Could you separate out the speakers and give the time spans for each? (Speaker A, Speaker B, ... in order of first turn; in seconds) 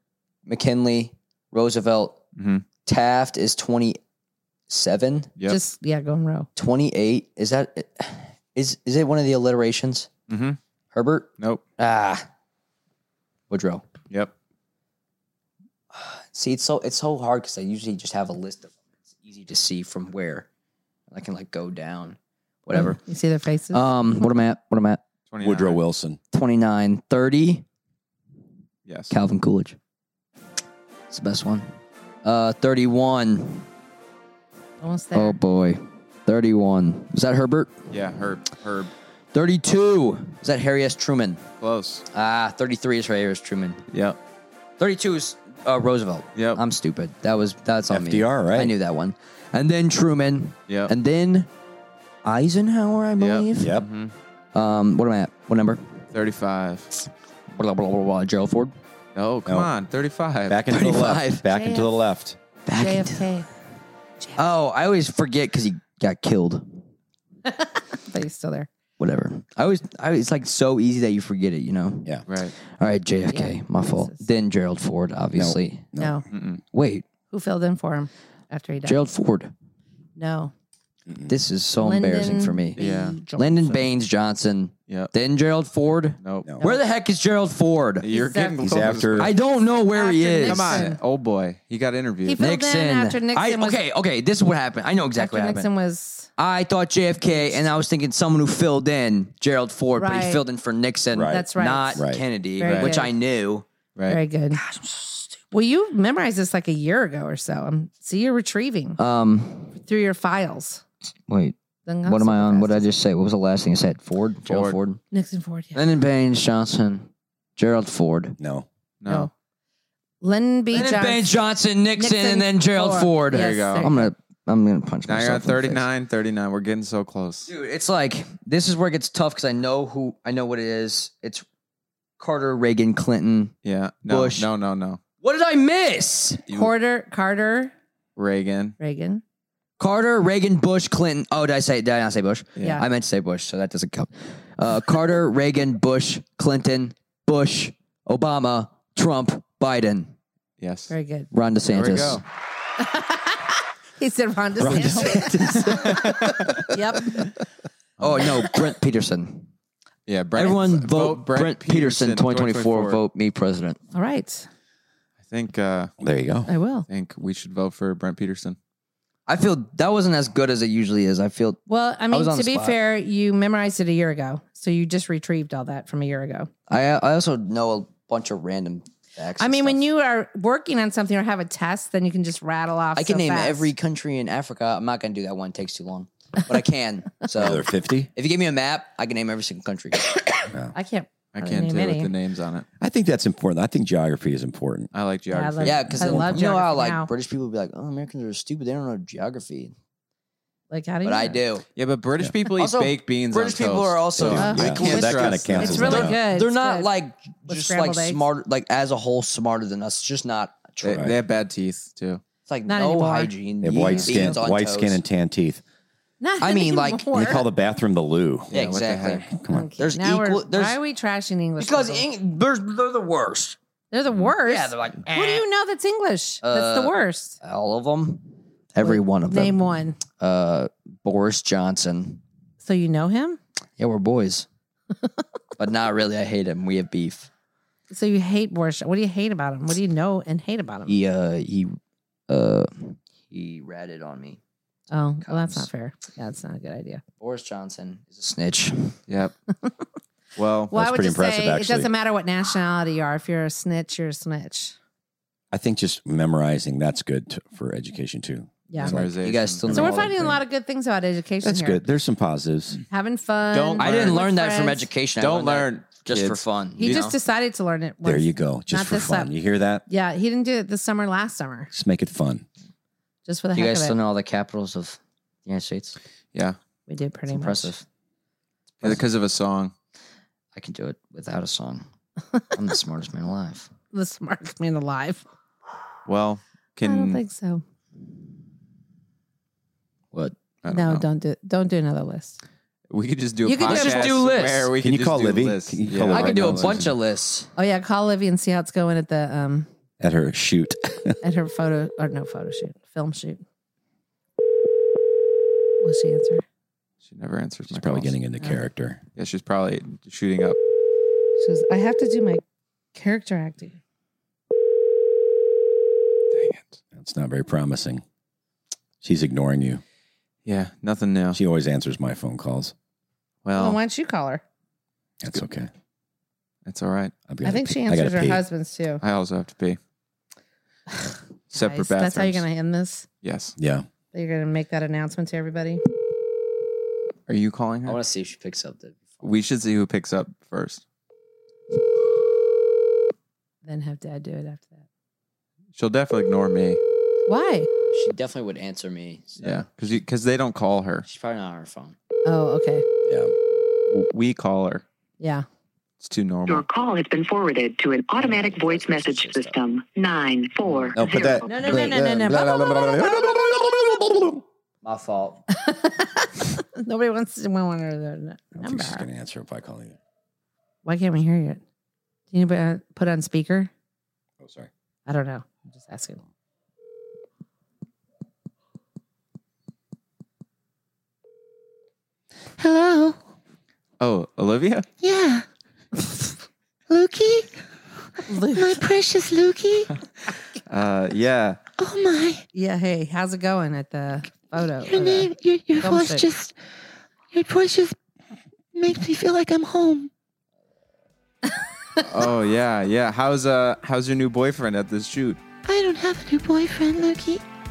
Speaker A: 0.5-2.2, 2.8-4.0, 4.7-5.3, 6.5-10.1, 10.9-12.2, 13.5-13.8, 15.9-20.5, 21.1-23.0, 23.7-25.0, 26.3-27.6, 29.1-29.8, 31.1-31.7, 32.2-33.7, 35.1-37.8, 39.3-41.4, 42.1-43.8, 44.8-51.5, 52.2-53.8, 54.5-55.8, 57.5-58.7, 60.7-61.4, 62.6-63.3, 64.3-66.8, 69.0-75.9, 76.7-77.0, 78.8-79.5, 81.3-82.8, 83.3-88.1, 89.1-90.9, 92.4-95.7, 96.4-103.7, 104.5-105.4, 109.0-109.7, 111.3-115.0, 115.7-118.4, 120.7-125.8, 127.5-131.4, 132.2-133.5, 134.1-134.5, 135.2-136.4, 139.8-150.1, 151.3-152.2, 158.0-159.5, 160.3-163.8, 169.3-172.8, 176.7-179.8, 182.9-190.2, 195.6-199.7, 201.0-201.6, 202.5-211.1, 212.5-215.0, 216.4-217.1, 218.5-220.8, 221.6-223.6, 224.4-225.4, 226.4-232.2, 233.8-234.5, 235.6-237.3, 240.9-241.8, 242.3-244.4, 245.2-245.7, 247.2-249.0, 259.2-260.4, 263.8-267.2, 273.6-275.9, 277.3-277.8, 280.5-281.9, 282.5-283.7, 293.6-294.7, 296.1-297.5, 337.8-339.3, 347.9-349.7, 351.0-351.9, 358.2-359.6, 364.8-365.4
Speaker B: 2.4-2.6, 10.3-10.6, 25.3-25.8, 28.9-29.1, 37.9-38.9, 41.6-42.0, 43.9-44.2, 46.3-46.6, 53.2-54.1, 56.1-56.9, 59.1-60.6, 72.3-72.5, 76.3-76.6, 82.8-83.2, 86.2-86.5, 88.0-89.3, 90.4-92.4, 102.6-103.0, 114.5-114.8, 119.0-119.3, 123.3-124.1, 125.0-127.5, 133.6-135.0, 138.2-138.8, 150.6-150.9, 151.7-152.2, 155.7-156.6, 160.1-163.0, 165.2-165.9, 166.9-168.6, 191.3-192.7, 194.9-196.1, 201.8-206.0, 210.8-212.2, 218.5-219.2, 249.1-249.3, 250.3-250.7, 258.8-259.9, 263.5-264.3, 265.2-267.1, 278.8-279.7, 286.1-287.2, 290.6-291.1, 292.9-296.8, 307.0-308.1, 309.1-310.6, 316.3-316.8, 320.4-321.4, 323.4-323.8, 326.6-327.1, 329.0-329.8, 331.5-332.4, 333.2-333.5, 337.3-338.0, 339.2-340.8, 345.7-346.8, 349.4-351.0, 353.9-354.8, 356.0-356.6, 384.0-384.9, 390.7-391.6, 402.0-405.4
Speaker C: 5.5-6.5, 22.7-23.9, 34.8-35.4, 61.5-62.0, 62.8-63.5, 67.5-68.7, 73.3-74.2, 76.0-76.2, 77.3-79.1, 80.2-80.5, 81.8-83.9, 88.1-88.8, 89.9-91.0, 92.2-93.8, 95.2-96.3, 97.2-97.7, 100.0-100.4, 101.2-102.0, 102.6-103.1, 104.1-104.6, 105.5-109.0, 109.8-110.8, 111.8-112.9, 115.1-115.8, 120.2-121.3, 122.0-124.1, 136.5-137.7, 138.8-139.2, 142.6-142.8, 150.9-151.3, 152.8-157.3, 163.9-164.5, 166.5-166.9, 171.7-176.5, 179.4-183.7, 190.7-192.1, 195.3-197.1, 200.7-201.4, 204.3-205.0, 205.6-206.9, 207.5-208.2, 212.7-214.4, 216.2-217.4, 219.5-222.1, 223.9-227.4, 228.8-230.0, 232.6-233.4, 237.9-240.9, 244.9-247.0, 250.7-254.7, 259.7-261.8, 262.9-264.9, 266.8-269.3, 269.9-271.7, 273.2-274.0, 276.9-277.7, 283.9-285.2, 286.8-287.6, 290.7-292.4, 293.4-294.2, 297.6-299.7, 301.2-303.4, 305.8-306.4, 311.4-312.4, 312.9-313.8, 323.5-324.4, 327.4-329.0, 330.9-333.1, 334.1-335.8, 343.6-344.8, 347.3-347.7, 352.2-352.8, 355.2-355.4, 361.4-363.2, 365.5-369.1, 370.8-371.6, 372.3-373.7, 375.1-376.2, 388.3-388.8, 392.5-396.2
Speaker D: 25.4-26.2, 47.9-48.7, 53.5-53.9, 59.5-59.7, 60.5-62.4, 75.3-76.2, 88.6-89.3, 101.1-102.2, 118.4-118.7, 154.6-156.6, 166.0-166.5, 187.3-188.1, 192.8-194.9, 196.0-196.3, 204.2-206.2, 213.6-215.6, 217.1-218.5, 219.3-219.7, 250.7-251.9, 255.5-259.2, 259.7-260.1, 261.4-262.8, 268.0-269.8, 271.7-272.4, 294.8-296.9, 300.0-301.2, 307.7-309.0, 316.9-318.0, 319.0-319.8, 321.3-322.7, 325.2-325.7, 327.3-328.4, 333.6-333.9, 353.0-353.3, 360.9-364.4, 368.5-370.0, 374.4-374.7
Speaker E: 356.5-361.9
Speaker F: 382.6-383.2, 385.0-385.4, 386.9-387.5, 388.5-389.9, 391.8-392.4, 394.8-396.6, 397.3-397.9, 398.7-400.1, 405.6-407.4